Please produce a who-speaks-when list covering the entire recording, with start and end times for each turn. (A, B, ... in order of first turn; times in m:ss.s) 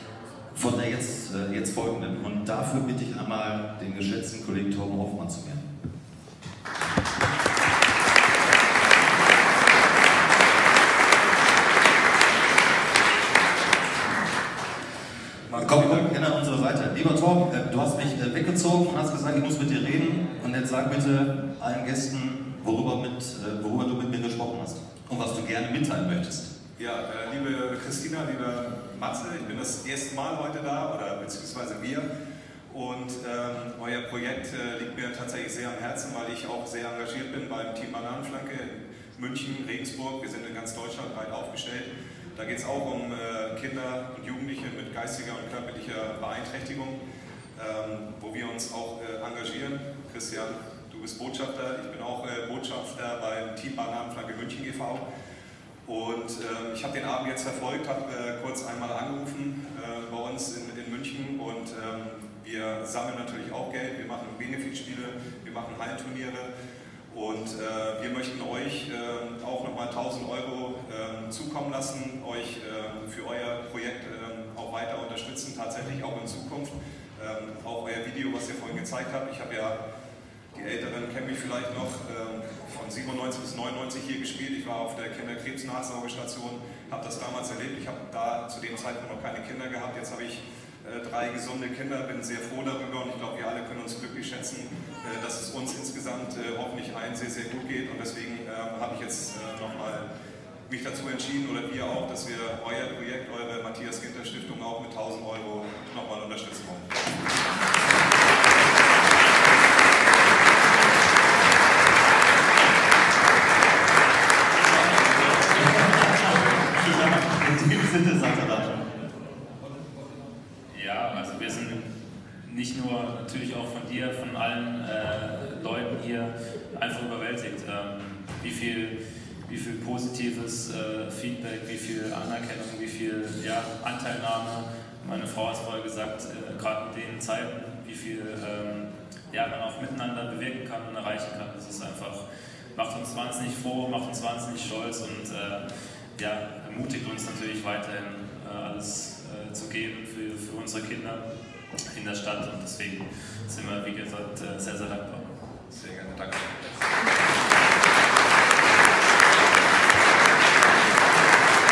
0:00.5-0:05.7 A
0:15.5-0:16.1 B
0:15.5-0:26.5 A
0:26.8-0:32.1 B
0:32.7-0:47.0 B
0:47.6-0:55.0 B
0:55.8-1:06.5 B
1:07.1-1:19.8 B
1:20.5-1:40.1 B
1:40.7-1:46.9 B
1:54.8-1:56.0 C
1:55.7-1:58.8 A
2:00.7-2:01.9 C
2:02.4-2:09.0 C
2:09.5-2:25.6 C
2:26.2-2:31.2 C
2:31.9-2:35.3 C
2:35.7-2:36.5 B